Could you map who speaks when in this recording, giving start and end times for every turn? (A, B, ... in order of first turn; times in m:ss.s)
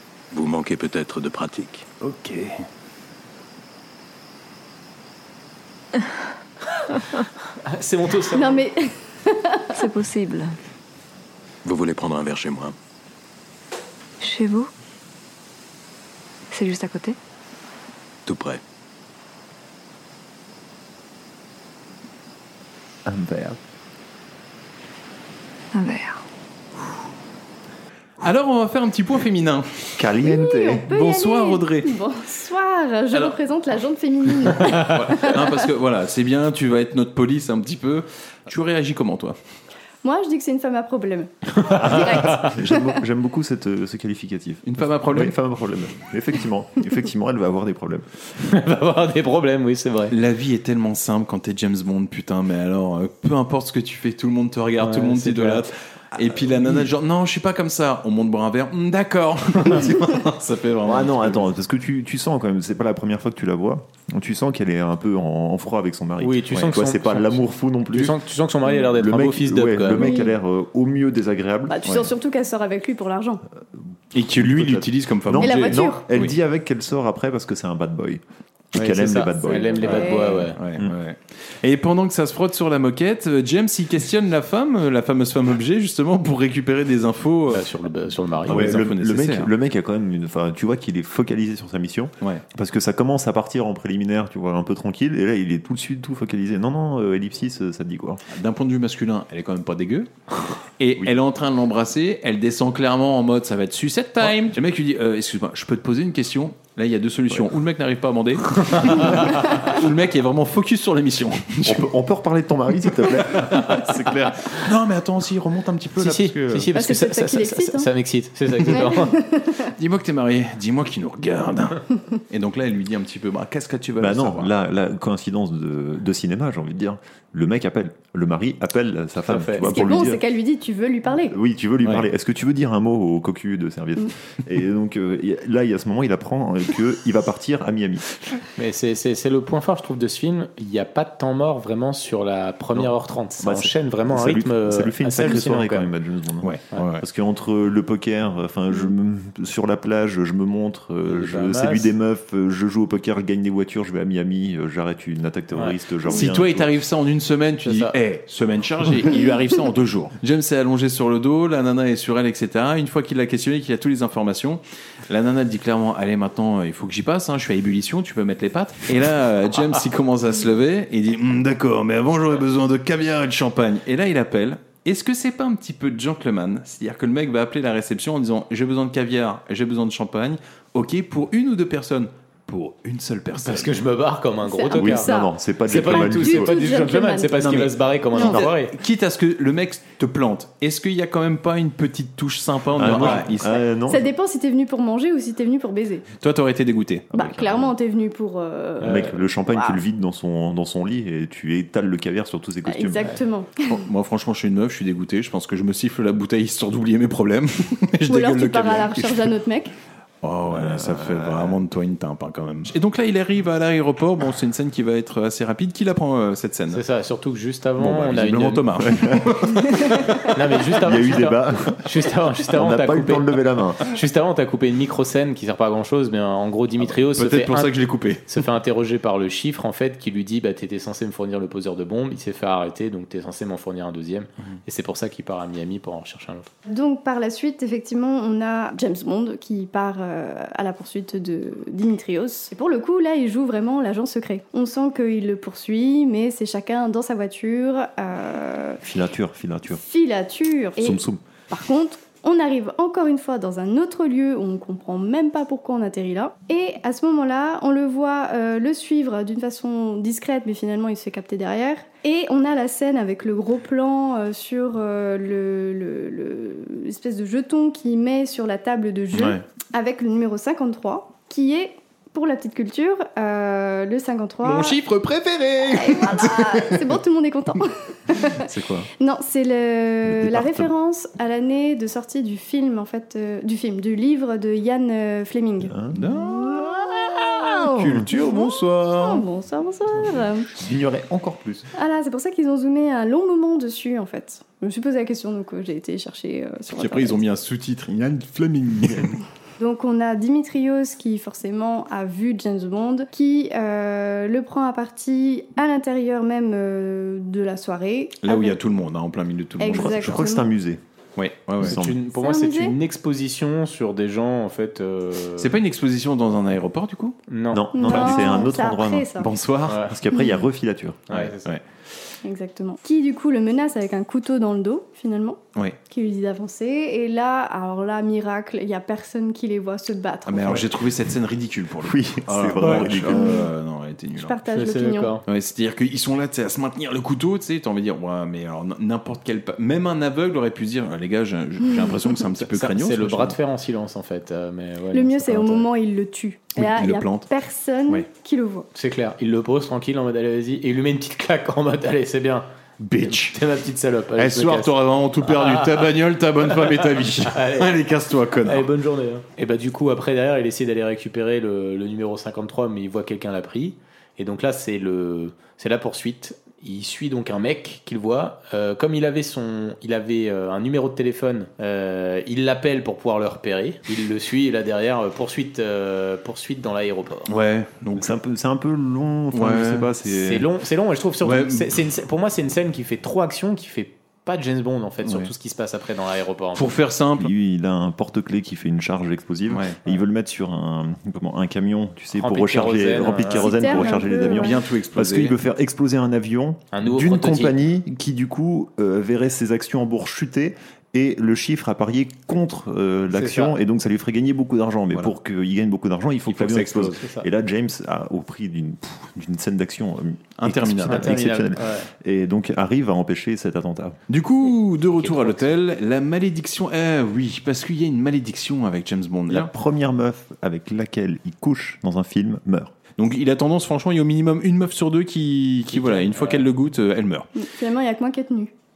0:00.3-0:01.9 A
0:02.0-0:02.5 B
0:07.6-0:08.6 C
0:08.3-0:09.6 D
0:09.7-0:10.5 E
0:11.6-0:12.7 A
0:14.2-0:14.7 E
0:16.5-0:17.2 E
0:18.2-0:18.6 A
0:23.0-0:23.6 F
0:25.7-0:26.2 E
0:28.2-0:30.0 B
0:30.0-0:30.9 F
0:30.2-0:35.6 D
0:30.9-0:31.9 B
0:34.7-0:39.4 B
0:40.0-0:42.9 D
0:41.7-0:42.5 C
0:41.7-0:48.1 F
0:44.6-0:45.3 B
0:48.4-0:50.1 C
0:50.1-1:01.4 B
0:54.8-0:55.6 C
1:00.8-1:08.2 F
1:06.2-1:10.1 C
1:08.7-1:11.8 F
1:09.9-1:10.3 D
1:11.7-1:13.4 D
1:14.1-1:16.3 B
1:14.1-1:18.2 F
1:15.4-1:16.0 D
1:18.7-1:20.9 F
1:18.7-1:20.6 C
1:19.4-1:20.4 D
1:19.8-1:27.7 B
1:27.5-1:28.8 C
1:28.4-1:29.5 B
1:28.5-1:38.2 F
1:38.3-1:40.1 B
1:40.8-1:51.9 B
1:48.7-1:49.2 C
1:51.6-1:53.9 F
1:53.3-1:56.7 B
1:56.0-1:59.1 C
1:56.7-1:57.9 D
1:58.7-1:59.7 D
1:59.8-2:04.5 B
2:04.0-2:10.2 F
2:09.3-2:09.9 C
2:09.6-2:11.4 D
2:11.3-2:18.0 F
2:18.6-2:25.9 C
2:23.4-2:36.7 F
2:26.4-2:27.0 B
2:31.0-2:31.9 C
2:36.1-3:03.8 B
2:37.6-2:37.9 C
3:03.4-3:05.1 C
3:04.4-3:07.4 D
3:04.7-3:06.7 F
3:05.7-3:08.7 C
3:07.4-3:13.6 B
3:08.1-3:08.4 D
3:12.8-3:14.1 F
3:13.9-3:16.0 D
3:16.2-3:17.1 B
3:17.1-3:17.7 F
3:17.1-3:19.8 D
3:18.8-3:19.1 C
3:18.8-3:23.2 F
3:22.6-3:23.8 D
3:23.6-3:29.4 B
3:28.0-3:29.7 D
3:30.2-3:36.8 B
3:30.5-3:31.6 F
3:36.7-3:38.6 C
3:37.8-3:40.2 B
3:38.8-3:39.5 F
3:40.3-3:43.3 C
3:40.8-3:41.9 F
3:42.5-3:43.8 F
3:43.8-3:47.7 C
3:47.1-3:48.2 B
3:48.3-3:56.5 C
3:56.7-4:08.8 D
4:08.8-4:09.8 F
4:09.8-4:34.8 D
4:10.8-4:11.2 F
4:29.1-4:29.4 B
4:34.4-4:37.0 B
4:35.6-4:38.4 D
4:38.3-4:38.9 B
4:39.0-4:50.5 D
4:40.0-4:40.7 F
4:45.6-4:46.0 F
4:45.9-4:49.3 B
4:47.8-4:48.0 F
4:50.5-4:51.7 F
4:51.7-4:57.2 D
4:56.7-4:59.2 B
4:59.6-5:08.6 D
5:08.2-5:10.2 B
5:09.6-5:10.5 D
5:09.6-5:10.8 F
5:11.2-5:11.8 B
5:11.6-5:12.0 F
5:11.6-5:15.5 C
5:12.1-5:12.8 D
5:15.4-5:17.2 B
5:17.3-5:18.1 C
5:17.5-5:19.2 F
5:17.7-5:19.3 D
5:19.2-5:19.8 B
5:19.8-5:21.0 F
5:20.1-5:20.4 D
5:21.1-5:21.5 C
5:21.1-5:21.6 B
5:22.2-5:30.7 D
5:30.2-5:34.4 B
5:31.8-5:33.4 F
5:32.6-5:32.9 C
5:33.1-5:33.5 D
5:34.1-5:35.2 D
5:34.5-5:35.2 C
5:35.2-5:43.4 B
5:42.5-5:45.7 C
5:44.9-5:48.7 D
5:46.6-5:47.3 B
5:48.7-5:52.4 C
5:52.8-5:53.4 B
5:53.0-5:54.7 C
5:54.2-5:58.7 B
5:55.2-5:55.8 C
5:57.2-5:57.7 C
5:58.4-6:17.3 C
6:17.3-6:18.1 B
6:17.9-6:20.4 F
6:19.3-6:19.9 B
6:20.1-6:26.7 C
6:21.2-6:21.7 B
6:25.0-6:25.3 B
6:26.5-6:27.3 B
6:27.2-6:54.0 F
6:29.5-6:29.8 B
6:32.1-6:33.8 C
6:33.3-6:34.6 D
6:34.3-6:35.4 B
6:36.7-6:37.5 C
6:43.1-6:43.5 C
6:46.3-6:47.3 C
6:50.4-6:51.2 B
6:50.9-6:51.9 C
6:54.1-6:59.5 B
6:55.0-6:55.4 C
6:59.3-7:02.7 F
7:03.0-7:07.3 B
7:05.7-7:06.5 C
7:07.4-7:08.5 D